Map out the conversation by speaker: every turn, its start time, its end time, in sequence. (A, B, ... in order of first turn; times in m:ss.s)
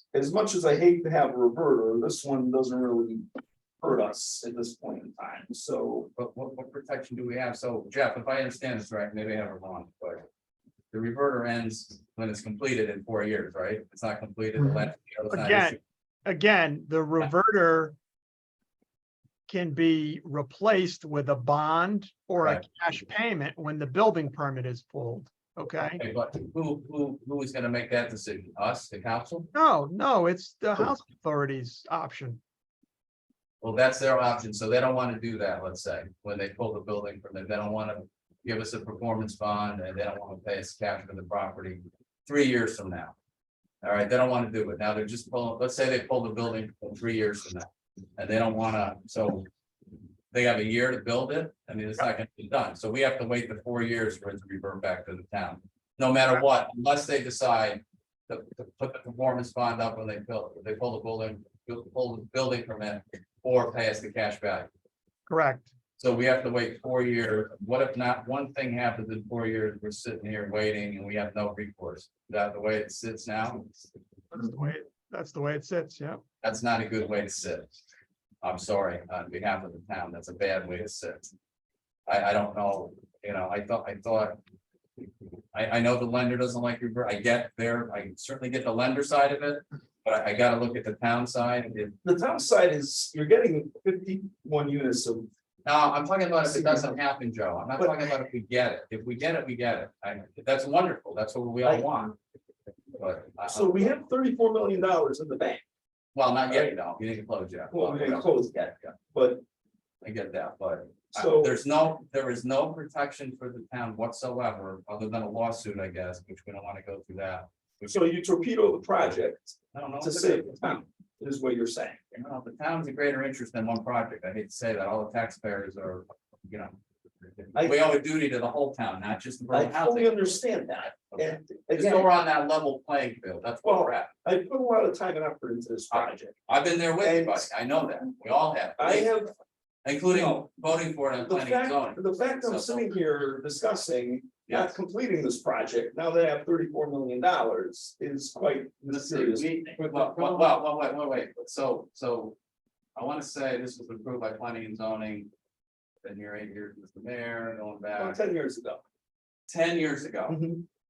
0:00.1-0:03.3 A
0:03.8-0:06.1 A
0:06.2-0:10.2 B
0:10.9-0:15.8 B
0:14.7-0:18.0 C
0:19.5-0:26.0 C
0:26.0-0:29.5 B
0:29.5-0:32.4 C
0:33.6-0:43.1 B
0:43.8-0:49.4 B
0:50.3-1:04.7 B
1:05.3-1:05.7 C
1:06.0-1:13.7 B
1:14.3-1:16.2 C
1:16.4-1:17.7 B
1:18.4-1:21.3 B
1:22.1-1:24.4 B
1:25.5-1:32.0 B
1:32.0-1:35.3 A
1:35.6-1:42.2 B
1:36.4-1:37.0 A
1:42.9-1:44.0 B
1:43.5-1:45.6 A
1:46.1-1:48.9 B
1:47.7-1:49.4 A
1:50.0-1:57.9 B
1:51.1-1:51.5 A
1:57.8-2:02.0 A
1:59.7-2:00.6 B
2:02.1-2:06.8 B
2:07.3-2:10.4 B
2:07.5-2:07.8 A
2:09.5-2:12.1 A
2:11.1-2:14.1 B
2:13.6-2:16.4 A
2:15.9-2:19.1 B
2:17.0-2:17.4 A
2:18.8-2:19.3 A
2:19.8-2:22.9 B
2:20.1-2:20.4 A
2:21.2-2:30.5 A
2:24.5-2:24.7 B
2:28.9-2:32.4 B
2:33.0-2:35.3 B
2:36.0-2:38.2 B
2:38.0-2:38.8 A
2:39.5-2:40.4 B
2:40.3-2:40.6 A